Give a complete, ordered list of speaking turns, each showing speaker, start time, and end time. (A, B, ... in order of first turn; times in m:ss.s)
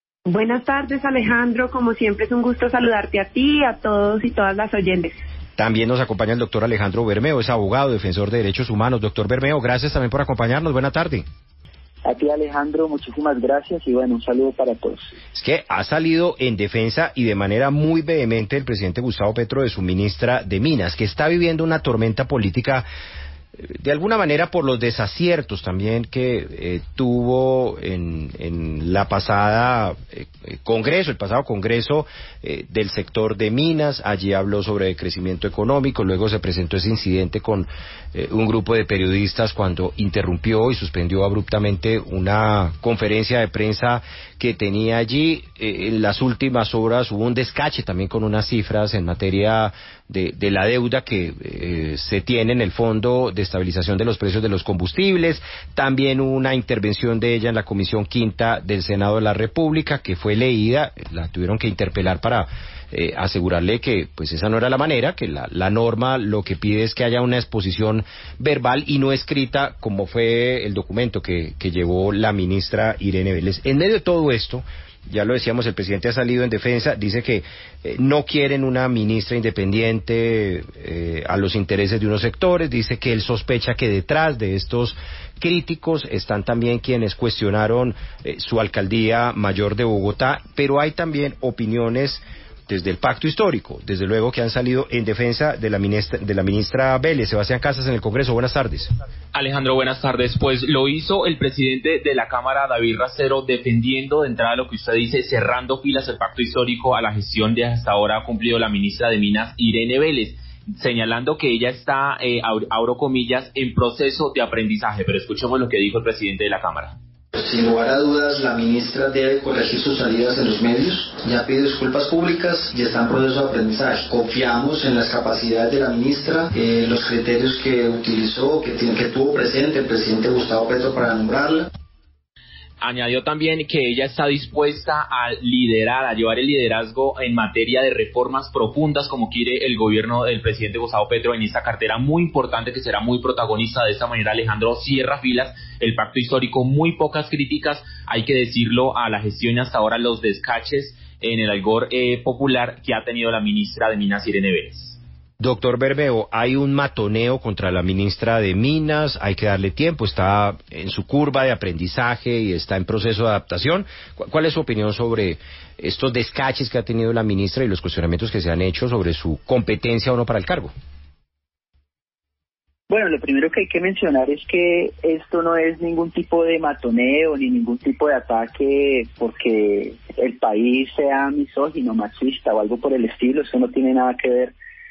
0:00.2-0:05.2 A
0:05.6-0:11.2 B
0:12.0-0:15.1 C
0:15.3-0:22.8 B
0:23.6-1:38.9 B
1:39.3-1:56.9 D
1:57.3-2:11.7 E
2:12.8-2:35.0 D
2:35.4-2:50.7 B
2:52.9-3:04.5 C